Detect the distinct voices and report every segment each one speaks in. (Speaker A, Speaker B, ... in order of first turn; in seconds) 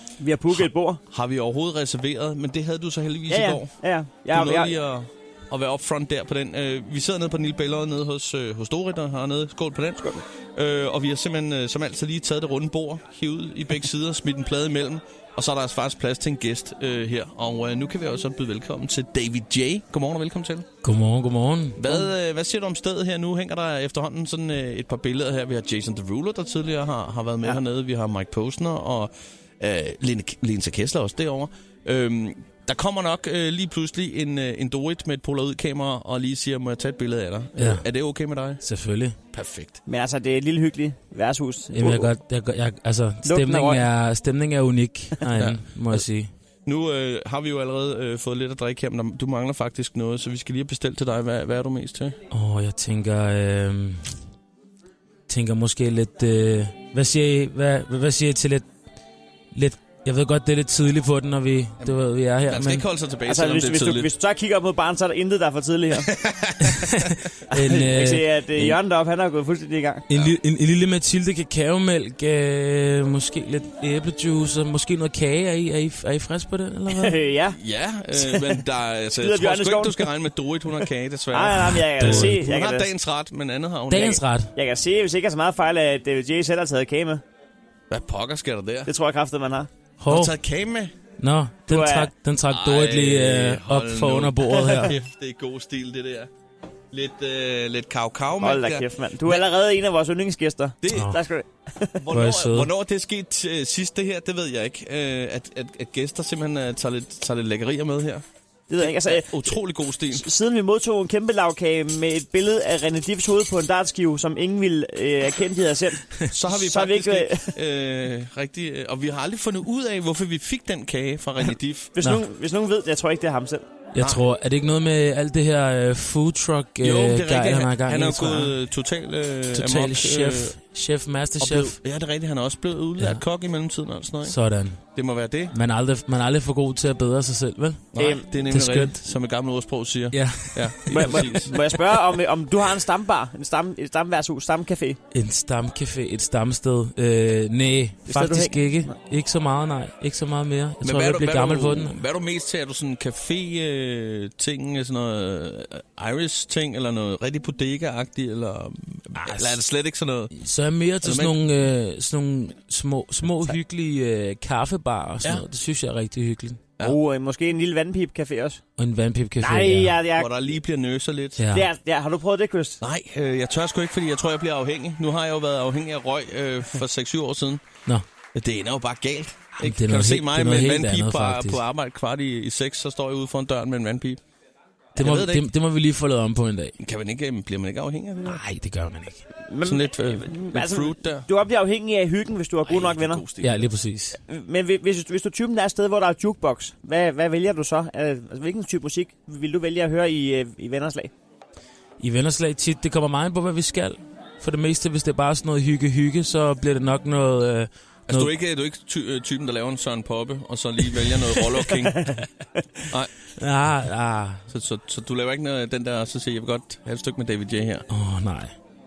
Speaker A: 0.2-1.0, 3.3-4.7, 39.9-42.1, 43.2-43.9, 63.2-66.1, 67.5-70.1, 76.9-77.6, 78.1-78.6, 79.2-80.2, 81.3-82.9, 84.5-87.2, 88.9-89.7, 91.7-92.1, 94.5-94.8, 98.4-102.0, 108.7-109.6, 110.1-117.5, 121.9-123.7, 138.0-138.3, 140.9-145.0, 148.1-148.9, 166.8-168.6, 169.4-170.3, 171.5-172.8, 189.4-193.2, 194.1-201.1, 212.2-212.6
Speaker B: 0.5-20.7, 21.8-38.6, 39.3-39.8, 45.3-46.0, 46.6-52.2, 61.8-64.1, 66.0-67.0, 77.5-84.2, 87.9-88.9, 90.1-90.9, 92.5-96.3, 96.9-99.4, 100.8-101.1, 102.0-108.2, 108.8-110.2, 116.3-121.9, 124.0-124.2, 126.8-130.5, 131.4-135.5, 137.9-141.6, 150.8-160.3, 161.0-161.5, 170.1-171.4, 172.8-177.6, 178.3-184.2, 185.0-185.5, 186.8-188.4, 189.6-191.3, 192.6-193.7, 208.1-212.2, 212.9-213.1, 214.5-217.8
Speaker C: 20.8-22.1, 37.5-37.9, 38.6-39.2, 41.7-46.3, 52.3-54.2, 55.3-58.7, 59.5-62.9, 66.7-68.8, 70.1-77.2, 82.0-82.4, 83.9-84.5, 90.0-90.3, 91.2-94.9, 100.9-101.2, 102.1-102.7, 123.9-128.6, 129.5-131.8, 133.0-133.2, 134.2-134.8, 135.5-139.0, 140.1-141.3, 145.1-152.0, 159.2-159.6, 160.3-166.6, 168.8-170.0, 171.4-171.7, 179.6-181.6, 184.9-186.8, 188.2-189.3, 193.4-194.2, 202.0-208.3, 213.4-214.4, 217.9-218.5